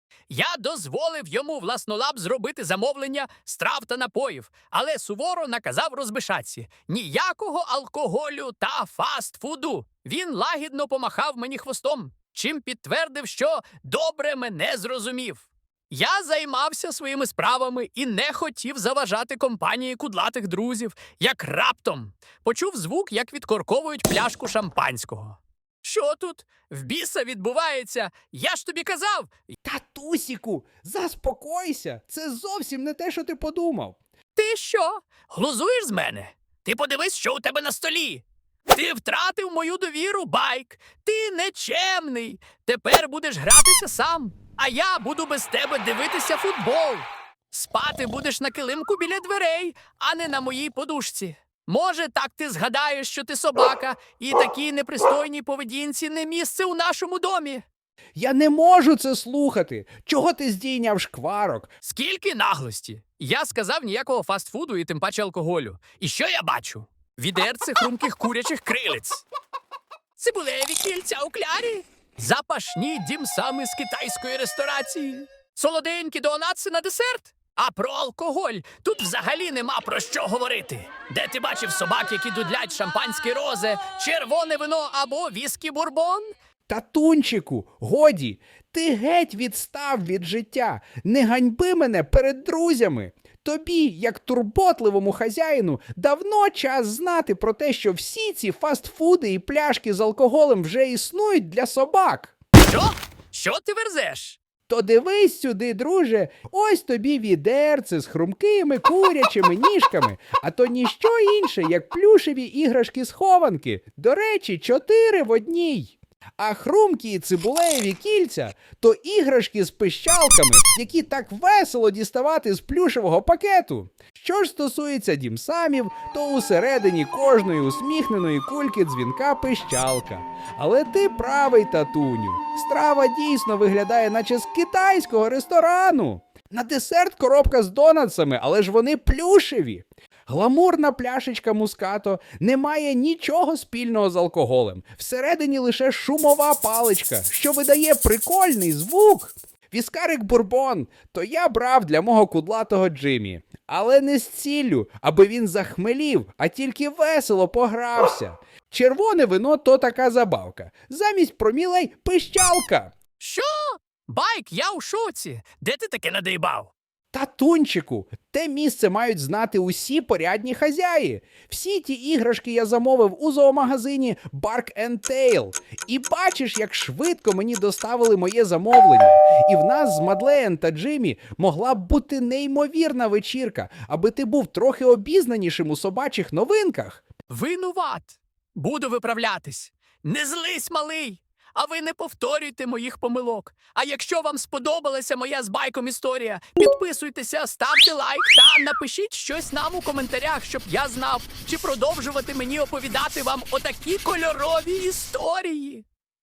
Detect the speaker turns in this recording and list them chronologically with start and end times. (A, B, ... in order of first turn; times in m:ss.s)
0:00.3-0:29.5 A
0:29.6-0:34.0 B
0:34.4-0:57.6 A
0:58.2-1:01.7 B
1:01.8-1:09.2 A
1:10.2-1:26.3 A
1:26.7-1:42.3 B
1:42.6-1:44.4 A
1:44.7-2:42.9 B
2:43.2-2:46.7 A
2:47.1-3:07.0 B
3:07.3-3:25.9 A